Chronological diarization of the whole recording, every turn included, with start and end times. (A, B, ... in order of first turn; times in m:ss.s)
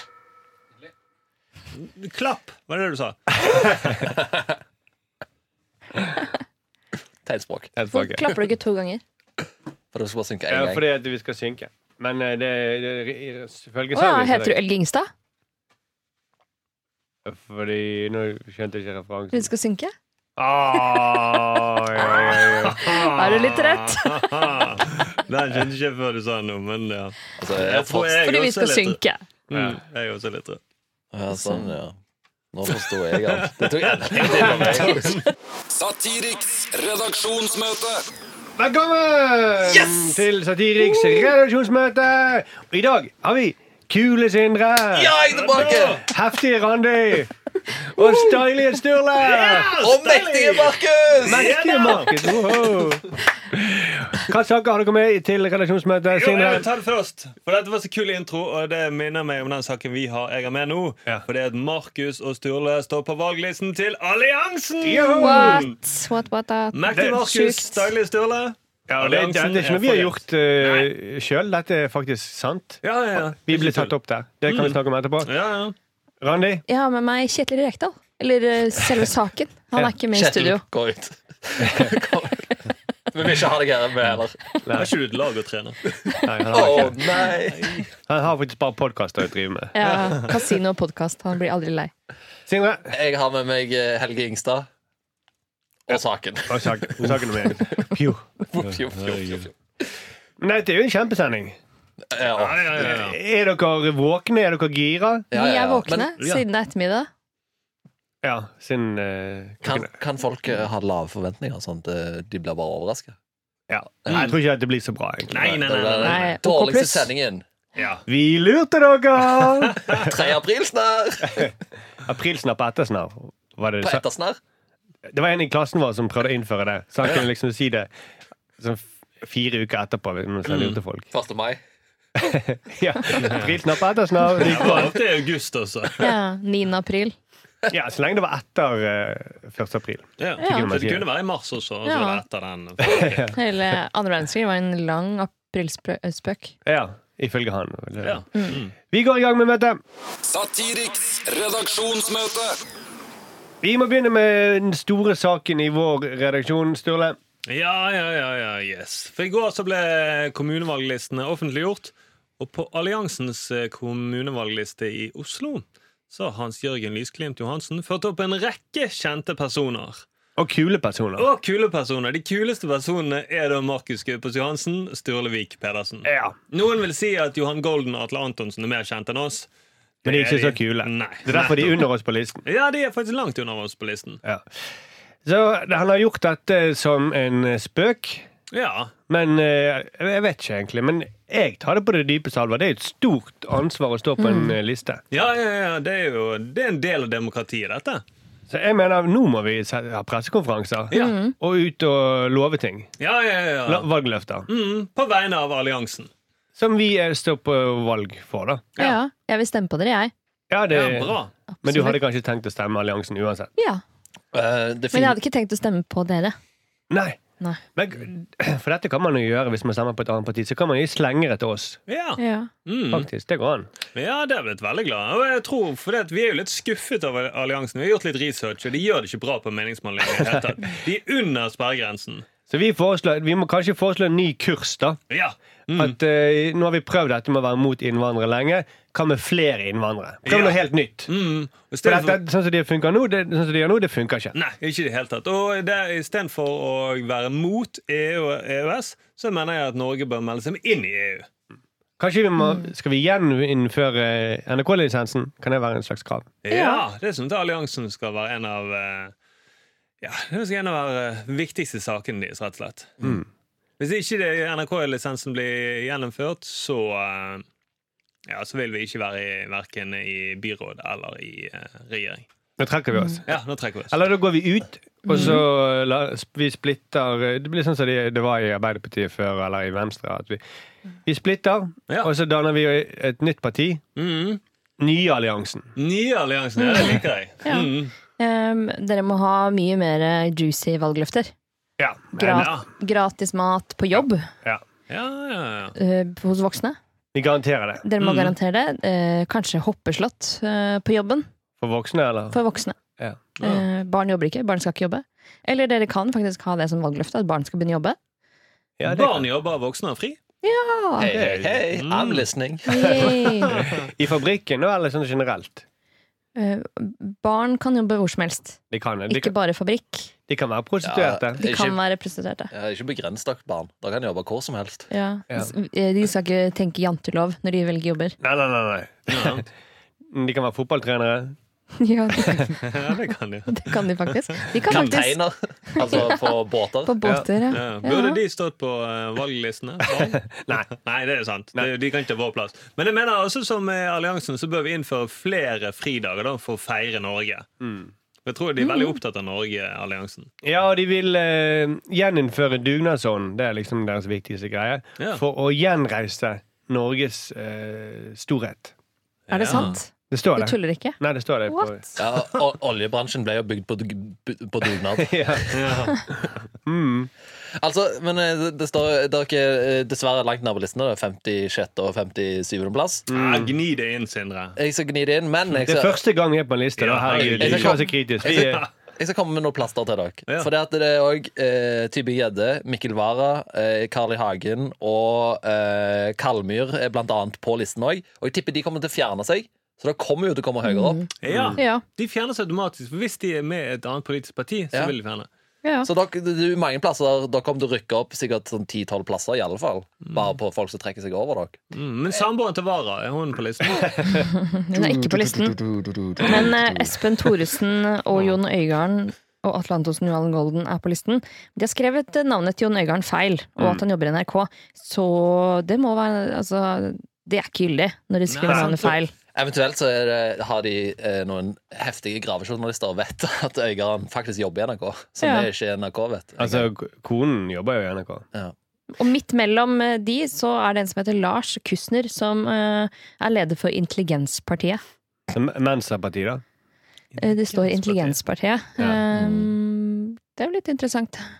0:01.8-0:04.0 A
0:04.0-0:04.5 B
0:07.2-0:07.7 B
0:07.8-0:08.2 C
0:07.9-0:09.0 D
0:09.9-0:10.8 B
0:10.5-0:14.6 C
0:13.9-0:15.1 D
0:17.2-0:19.5 C
0:19.3-0:19.9 D
0:20.4-0:22.8 C
0:22.0-0:24.5 D
0:22.7-0:29.0 A
0:27.4-0:28.2 B
0:28.2-0:29.2 D
0:29.5-0:30.6 A
0:29.5-0:29.8 C
0:31.1-0:32.0 B
0:31.4-0:31.6 D
0:32.5-0:35.2 B
0:32.7-0:35.2 A
0:35.7-0:38.0 E
0:38.6-0:47.3 C
0:39.7-0:40.2 B
0:44.9-0:46.0 B
0:45.3-0:46.0 A
0:47.8-0:49.8 C
0:49.2-0:52.8 A
0:49.8-0:51.9 B
0:51.2-0:56.7 C
0:56.1-1:05.8 A
1:04.8-1:05.7 C
1:05.2-1:07.8 D
1:06.7-1:10.9 A
1:06.9-1:07.2 C
1:08.9-1:15.3 C
1:12.8-1:13.9 A
1:14.5-1:15.8 A
1:16.2-1:16.6 C
1:16.7-1:20.6 D
1:20.1-1:22.5 B
1:21.6-1:21.9 C
1:23.1-1:24.4 B
1:24.7-1:24.9 C
1:24.7-1:25.8 A
1:26.2-1:27.1 C
1:26.5-1:27.8 B
1:27.4-1:27.9 A
1:28.1-1:29.8 C
1:29.7-1:31.9 D
1:29.8-1:30.2 A
1:32.5-1:32.9 C
1:32.9-1:34.7 B
1:35.9-1:37.8 B
1:36.5-1:38.3 C
1:38.5-1:39.5 B
1:38.9-1:39.5 A
1:40.4-1:41.6 C
1:42.1-1:43.0 B
1:42.3-1:43.2 A
1:42.8-1:45.3 C
1:45.3-1:46.1 B
1:45.3-1:47.1 D
1:48.2-1:49.9 C
1:49.6-1:53.2 B
1:53.7-1:55.5 C
1:54.1-1:54.3 A
1:55.3-1:56.4 A
1:55.4-1:57.4 B
1:56.0-1:57.1 D
1:57.8-1:58.0 A
1:58.1-2:00.1 C
1:59.4-2:00.1 A
2:00.0-2:01.5 B
2:01.2-2:04.0 C
2:03.8-2:04.4 B
2:05.1-2:07.9 C
2:08.6-2:11.1 C
2:10.5-2:10.8 A
2:11.1-2:11.6 B
2:12.2-2:14.9 C
2:13.2-2:13.5 A
2:14.4-2:16.1 A
2:14.5-2:14.9 D
2:16.0-2:17.2 D
2:17.7-2:21.0 C
2:20.2-2:23.3 A
2:20.4-2:20.7 D
2:21.8-2:22.2 D
2:22.8-2:23.4 C
2:23.3-2:26.6 D
2:26.6-2:28.2 C
2:28.0-2:28.7 A
2:28.9-2:29.8 C
2:30.3-2:32.6 E
2:33.6-2:37.2 C
2:37.5-2:50.0 A
2:50.4-2:51.3 C
2:51.2-2:59.5 A
2:56.0-2:56.4 C
3:00.0-3:01.9 A
3:00.0-3:02.4 C
3:02.4-3:04.2 A
3:05.2-3:08.3 C
3:08.5-3:08.9 A
3:09.1-3:15.0 C
3:14.2-3:14.5 D
3:15.1-3:18.0 A
3:18.5-3:22.9 C
3:20.9-3:21.2 A
3:20.9-3:21.4 D
3:23.0-3:23.9 A
3:23.7-3:24.5 C
3:24.5-3:26.1 A
3:26.6-3:28.6 C
3:28.8-3:30.1 D
3:30.5-3:33.5 C
3:30.7-3:31.3 A
3:31.5-3:32.0 D
3:33.6-3:33.8 D
3:34.3-3:35.2 B
3:34.9-3:36.4 D
3:36.9-3:37.2 C
3:37.8-3:41.8 C
3:41.9-3:43.1 A
3:42.2-3:42.5 D
3:42.9-3:43.7 C
3:44.0-3:52.3 A
3:52.5-3:55.0 C
3:55.1-3:56.0 A
3:55.7-4:01.1 C
4:00.3-4:02.2 A
4:01.8-4:04.3 C
4:04.3-4:11.3 A
4:12.0-4:16.3 C
4:12.4-4:12.7 D
4:16.4-4:19.1 A
4:16.5-4:16.8 D
4:20.0-4:23.0 A
4:23.8-4:27.4 A
4:28.3-4:32.2 A
4:32.6-4:33.4 C
4:33.3-4:34.0 A
4:33.9-4:40.4 C
4:35.0-4:35.4 D
4:35.1-4:35.4 A
4:41.0-4:43.8 C
4:44.0-4:44.4 A
4:44.8-4:45.7 C
4:45.8-4:47.9 A
4:46.6-4:51.3 D
4:51.8-4:52.5 C
4:52.1-4:54.3 D
4:52.2-4:52.7 A
4:54.9-4:55.8 A
4:55.8-4:56.8 D
4:57.1-4:57.9 C
4:57.8-5:01.3 D
4:58.0-4:58.4 A
5:01.6-5:02.4 C
5:02.3-5:02.8 D
5:03.4-5:08.0 D
5:08.8-5:09.3 C
5:08.8-5:10.2 A
5:10.4-5:11.1 D
5:11.0-5:13.1 B
5:11.1-5:11.7 C
5:11.7-5:12.3 A
5:12.7-5:13.6 D
5:12.8-5:15.6 C
5:13.5-5:13.9 A
5:16.4-5:20.1 D
5:18.7-5:19.3 C
5:20.3-5:21.4 C
5:20.8-5:21.8 B
5:21.4-5:22.5 D
5:22.5-5:24.9 B
5:24.9-5:28.2 D
5:28.2-5:29.4 C
5:29.1-5:29.4 A
5:30.1-5:31.4 C
5:31.8-5:32.7 D
5:32.6-5:33.8 A
5:33.5-5:36.2 D
5:34.7-5:36.9 B
5:34.7-5:35.0 A
5:36.9-5:38.2 D
5:37.5-5:47.5 A
5:39.9-5:40.7 C
5:47.6-5:47.9 C
5:48.2-5:50.3 A
5:48.6-5:49.0 D
5:50.4-5:58.7 C
5:59.3-5:59.8 A
5:59.3-6:02.0 D
5:59.5-6:01.8 C
6:02.0-6:05.6 B
6:05.0-6:05.4 C
6:05.5-6:06.0 A
6:06.6-6:07.1 C
6:07.6-6:13.1 B
6:13.1-6:13.5 C
6:13.1-6:14.6 A
6:14.6-6:16.0 B
6:15.6-6:18.6 C
6:16.8-6:18.7 A
6:17.1-6:31.1 B
6:30.7-6:31.8 D
6:31.2-6:35.3 A
6:31.3-6:31.6 C
6:35.6-6:35.9 D
6:35.8-6:41.6 B
6:41.7-6:44.2 A
6:44.1-6:45.6 D
6:44.8-6:46.7 C
6:46.2-6:59.1 D
6:58.3-6:58.9 A
6:59.3-7:06.7 B
7:05.2-7:05.5 D
7:06.4-7:08.2 C
7:09.0-7:14.8 D
7:15.3-7:16.4 C
7:17.2-7:21.3 D
7:17.2-7:18.2 A
7:19.1-7:19.5 B